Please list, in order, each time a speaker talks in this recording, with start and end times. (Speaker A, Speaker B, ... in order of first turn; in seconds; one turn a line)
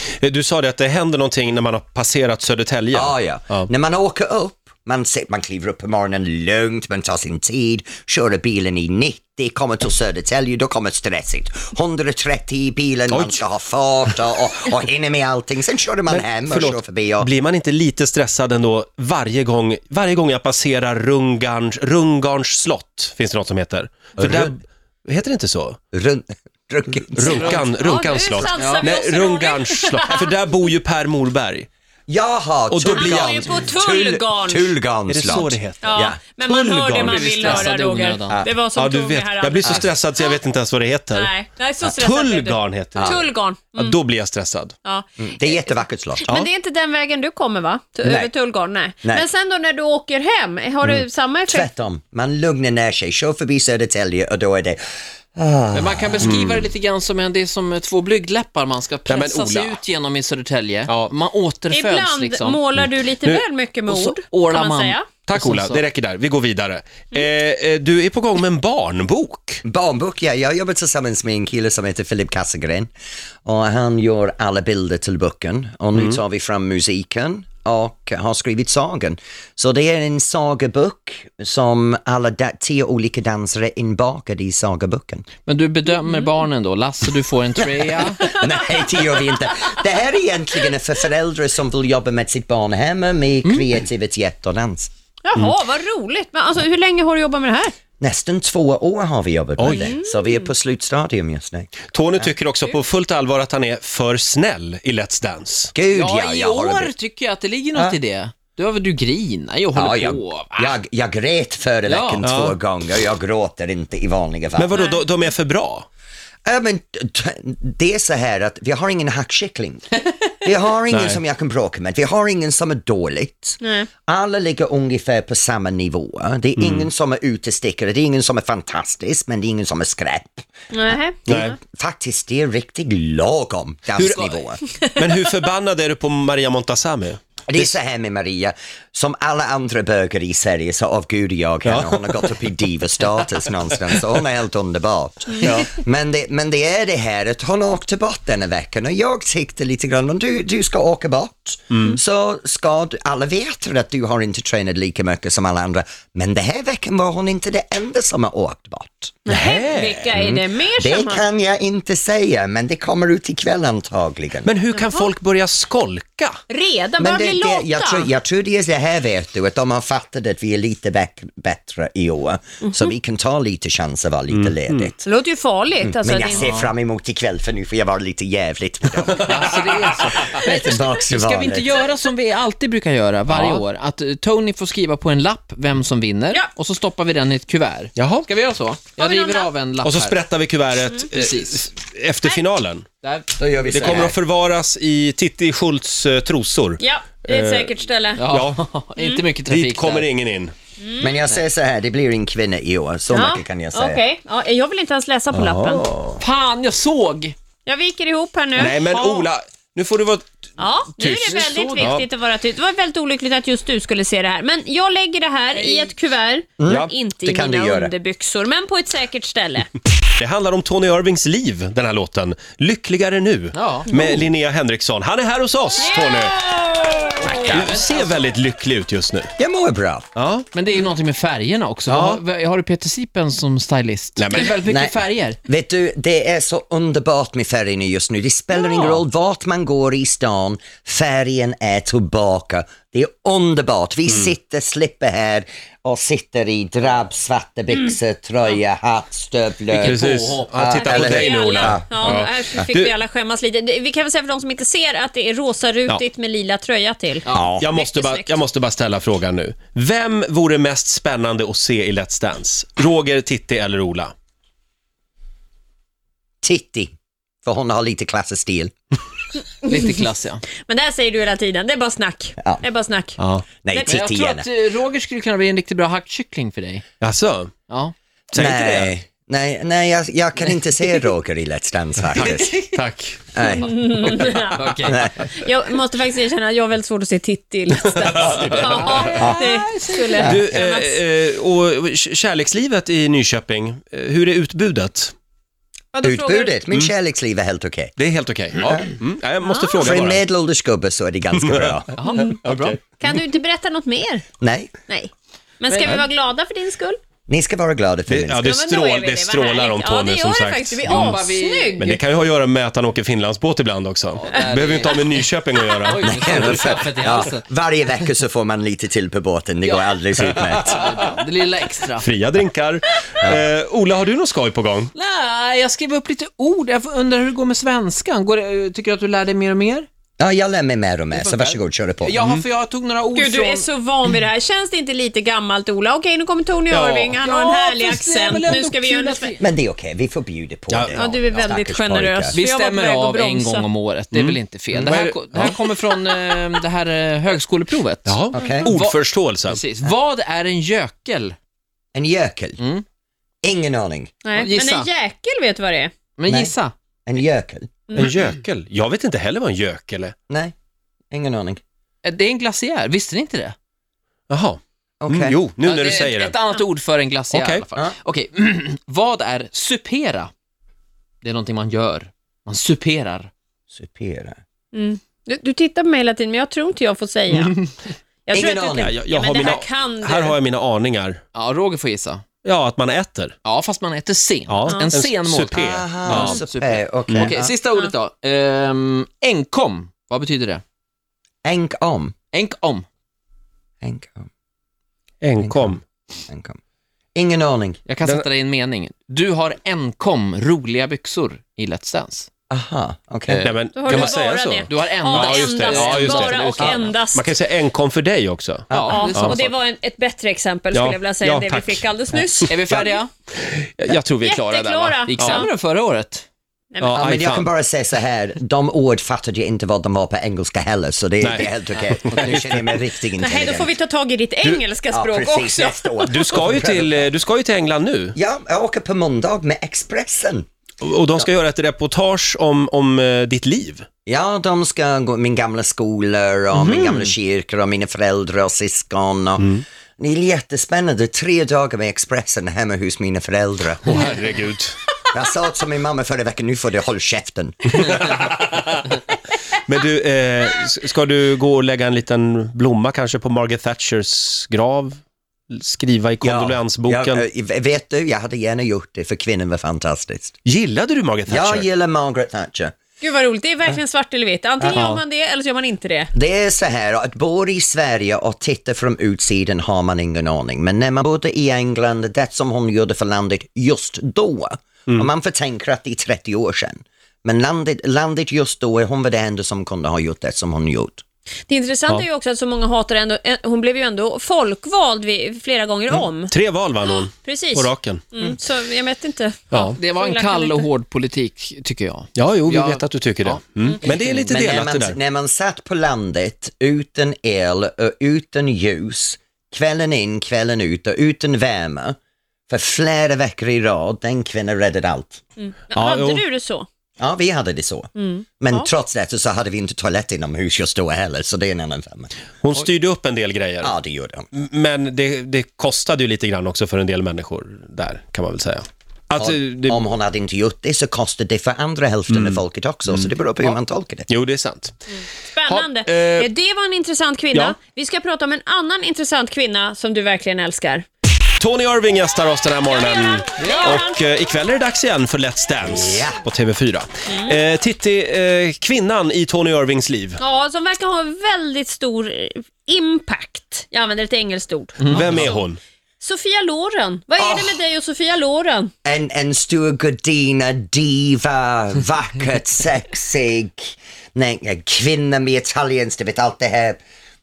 Speaker A: 0.2-3.7
Speaker B: 2.9-17.3
Speaker A: 13.1-13.4
Speaker A: 16.1-25.8
Speaker B: 24.2-24.5
Speaker B: 25.9-27.6
Speaker A: 27.1-31.7
Speaker C: 27.2-27.6
Speaker D: 27.5-30.2
Speaker C: 28.5-28.9
Speaker B: 32.1-36.2
Speaker A: 32.7-33.4
Speaker D: 32.9-34.7
Speaker A: 35.1-37.7
Speaker D: 35.8-40.4
Speaker C: 36.9-38.4
Speaker A: 38.7-41.3
Speaker D: 41.1-44.0
Speaker A: 42.0-43.2
Speaker B: 43.0-43.3
Speaker A: 43.7-44.7
Speaker D: 44.8-51.7
Speaker B: 45.2-46.2
Speaker B: 48.0-48.3
Speaker B: 51.5-54.8
Speaker B: 55.4-56.4
Speaker C: 55.7-62.6
Speaker A: 56.2-56.6
Speaker A: 59.1-59.8
Speaker A: 60.9-61.1
Speaker D: 61.7-65.1
Speaker A: 62.8-63.4
Speaker C: 63.9-65.8
Speaker A: 65.3-69.6
Speaker B: 69.6-72.9
Speaker B: 73.4-85.3
Speaker C: 85.5-88.3
Speaker B: 87.6-94.9
Speaker D: 95.2-97.7
Speaker B: 98.0-102.3
Speaker A: 99.6-100.0
Speaker D: 99.7-100.4
Speaker A: 101.9-105.7
Speaker B: 105.7-106.9
Speaker C: 105.9-110.7
Speaker B: 109.7-114.7
Speaker C: 111.8-112.2
Speaker A: 112.2-112.5
Speaker A: 114.6-115.8
Speaker D: 114.7-115.0
Speaker B: 116.5-119.9
Speaker B: 120.4-130.4
Speaker A: 120.9-121.2
Speaker D: 123.6-123.9
Speaker A: 126.6-126.9
Speaker D: 130.7-131.5
Speaker A: 131.2-131.6
Speaker B: 131.3-134.6
Speaker C: 133.9-134.4
Speaker D: 134.7-135.0
Speaker A: 134.9-137.7
Speaker B: 137.5-159.2
Speaker A: 141.6-142.0
Speaker A: 145.4-145.7
Speaker D: 159.2-161.2
Speaker A: 159.3-160.4
Speaker B: 160.8-164.5
Speaker A: 164.4-166.4
Speaker D: 164.7-165.0
Speaker D: 166.5-168.1
Speaker B: 167.0-175.0
Speaker A: 174.3-174.9
Speaker D: 175.0-176.5
Speaker B: 175.8-181.8
Speaker C: 176.2-176.7
Speaker C: 179.2-190.2
Speaker A: 183.3-183.6
Speaker A: 187.9-188.3
Speaker D: 189.0-189.5
Speaker A: 189.8-192.8
Speaker C: 191.1-191.7
Speaker C: 193.0-194.1
Speaker B: 193.4-194.2
Speaker A: 193.7-197.7
Speaker D: 196.8-198.2
Speaker C: 198.2-200.1
Speaker A: 198.3-198.6
Speaker A: 199.5-200.5
Speaker D: 200.8-201.1
Speaker B: 201.0-204.0
Speaker D: 203.1-205.9
Speaker A: 205.3-206.2
Speaker C: 206.2-207.3
Speaker D: 207.7-209.3
Speaker A: 208.6-210.4
Speaker D: 210.6-219.7
Speaker A: 211.0-212.1
Speaker C: 211.2-212.0
Speaker B: 216.6-217.9
Speaker A: 220.2-226.3
Speaker C: 223.5-224.0
Speaker D: 225.8-227.8
Speaker B: 227.2-227.8
Speaker A: 227.5-229.3
Speaker B: 229.4-230.1
Speaker A: 230.1-230.4
Speaker C: 230.5-235.4
Speaker A: 231.9-232.2
Speaker A: 234.2-234.6
Speaker B: 234.6-251.8
Speaker C: 249.7-251.1
Speaker A: 249.8-252.9
Speaker D: 251.0-258.4
Speaker B: 257.3-257.7
Speaker A: 257.6-264.1
Speaker B: 266.4-266.9
Speaker B: 267.4-268.7
Speaker C: 269.6-270.5
Speaker D: 270.6-273.2
Speaker A: 273.2-273.4
Speaker B: 273.6-274.5
Speaker D: 273.7-274.0
Speaker C: 273.9-276.8
Speaker A: 277.0-277.5
Speaker C: 277.7-277.9
Speaker A: 278.3-278.9
Speaker B: 278.3-282.6
Speaker A: 282.1-283.2
Speaker B: 283.3-284.3
Speaker D: 283.6-284.6
Speaker C: 284.5-285.1
Speaker B: 284.8-285.2
Speaker D: 285.2-290.9
Speaker A: 288.0-289.0
Speaker C: 288.4-290.4
Speaker B: 290.2-290.5
Speaker A: 290.2-295.1
Speaker D: 295.9-296.5
Speaker B: 296.0-297.9
Speaker A: 298.0-300.2
Speaker B: 298.6-298.9
Speaker D: 299.4-299.9
Speaker B: 299.8-301.9
Speaker A: 301.4-301.7
Speaker C: 301.9-302.8
Speaker A: 302.4-302.8
Speaker D: 303.0-304.2
Speaker B: 304.4-304.7
Speaker D: 304.9-307.0
Speaker C: 305.7-306.0
Speaker B: 307.3-308.4
Speaker A: 308.1-311.2
Speaker D: 308.4-311.9
Speaker C: 310.8-312.0
Speaker A: 311.8-316.8
Speaker C: 314.2-315.1
Speaker C: 315.8-317.4
Speaker B: 316.0-320.9
Speaker C: 319.6-322.1
Speaker A: 320.3-320.8
Speaker A: 322.0-324.9
Speaker C: 324.9-329.9
Speaker B: 330.2-332.2
Speaker C: 331.1-333.7
Speaker A: 332.2-332.4
Speaker D: 333.1-339.4
Speaker A: 336.7-337.2
Speaker C: 337.2-339.4
Speaker B: 339.4-342.4
Speaker A: 340.7-341.0
Speaker D: 340.9-343.7
Speaker C: 342.3-351.4
Speaker A: 344.1-346.1
Speaker A: 348.1-349.6
Speaker B: 348.3-348.7
Speaker B: 351.9-352.6
Speaker C: 352.6-352.8
Speaker B: 353.4-354.1
Speaker D: 354.2-356.0
Speaker C: 354.3-354.9
Speaker C: 356.1-356.7
Speaker B: 356.3-356.5
Speaker B: 357.1-357.7
Speaker D: 357.9-358.2
Speaker A: 357.9-360.1
Speaker B: 360.3-360.5
Speaker B: 361.1-361.6
Speaker C: 362.0-363.5
Speaker A: 364.3-366.4
Speaker B: 365.0-365.4
Speaker C: 365.6-370.3
Speaker A: 367.3-367.6
Speaker C: 371.2-373.3
Speaker B: 373.7-374.4
Speaker D: 374.7-377.5
Speaker C: 377.3-377.7
Speaker D: 378.3-380.4
Speaker B: 378.3-378.9
Speaker A: 378.6-381.2
Speaker C: 381.3-382.2
Speaker A: 382.4-383.3
Speaker C: 383.4-390.6
Speaker A: 384.5-386.4
Speaker B: 385.5-387.5
Speaker A: 387.1-387.4
Speaker B: 391.4-392.1
Speaker C: 392.3-392.8
Speaker B: 393.8-394.3
Speaker A: 395.2-395.8
Speaker B: 395.4-395.8
Speaker B: 396.3-396.6
Speaker B: 397.1-397.8
Speaker C: 397.9-402.3
Speaker B: 402.5-403.5
Speaker C: 403.3-404.1
Speaker A: 403.4-409.4
Speaker D: 403.7-407.3
Speaker C: 404.7-406.9
Speaker B: 408.7-409.0
Speaker C: 408.7-409.5
Speaker D: 408.9-412.5
Speaker A: 410.7-415.4
Speaker C: 412.4-413.1
Speaker D: 414.2-415.5
Speaker C: 415.0-416.2
Speaker D: 416.7-417.0
Speaker A: 416.8-417.5
Speaker B: 416.9-423.7
Speaker A: 421.2-422.6
Speaker C: 421.8-422.4
Speaker D: 423.2-426.5
Speaker B: 424.9-427.0
Speaker A: 426.1-428.1
Speaker B: 428.1-430.4
Speaker A: 430.8-433.9
Speaker B: 434.1-444.0
Speaker C: 436.6-437.1
Speaker A: 443.8-444.7
Speaker B: 445.1-447.9
Speaker A: 447.7-448.8
Speaker A: 449.6-457.2
Speaker B: 456.2-460.3
Speaker A: 460.4-461.6
Speaker B: 461.3-462.7
Speaker D: 463.0-466.1
Speaker B: 464.6-464.8
Speaker A: 464.7-465.0
Speaker B: 466.1-481.0
Speaker D: 481.5-490.7
Speaker A: 485.9-488.3
Speaker A: 489.5-489.8
Speaker C: 489.6-494.2
Speaker A: 492.1-495.0
Speaker B: 494.2-501.9
Speaker B: 502.5-505.2
Speaker D: 505.4-506.7
Speaker A: 505.7-506.2
Speaker B: 507.0-512.1
Speaker D: 508.0-508.7
Speaker A: 512.4-513.7
Speaker B: 513.6-514.3
Speaker A: 514.3-519.8
Speaker B: 519.2-524.1
Speaker A: 522.1-523.5
Speaker A: 524.1-524.8
Speaker D: 525.4-530.9
Speaker A: 525.4-526.3
Speaker A: 531.4-540.2
Speaker D: 532.7-534.0
Speaker C: 533.4-533.8
Speaker B: 535.6-536.2
Speaker D: 540.2-545.3
Speaker C: 544.8-545.3
Speaker A: 544.9-545.6
Speaker D: 546.0-548.7
Speaker B: 547.2-547.6
Speaker B: 548.8-556.8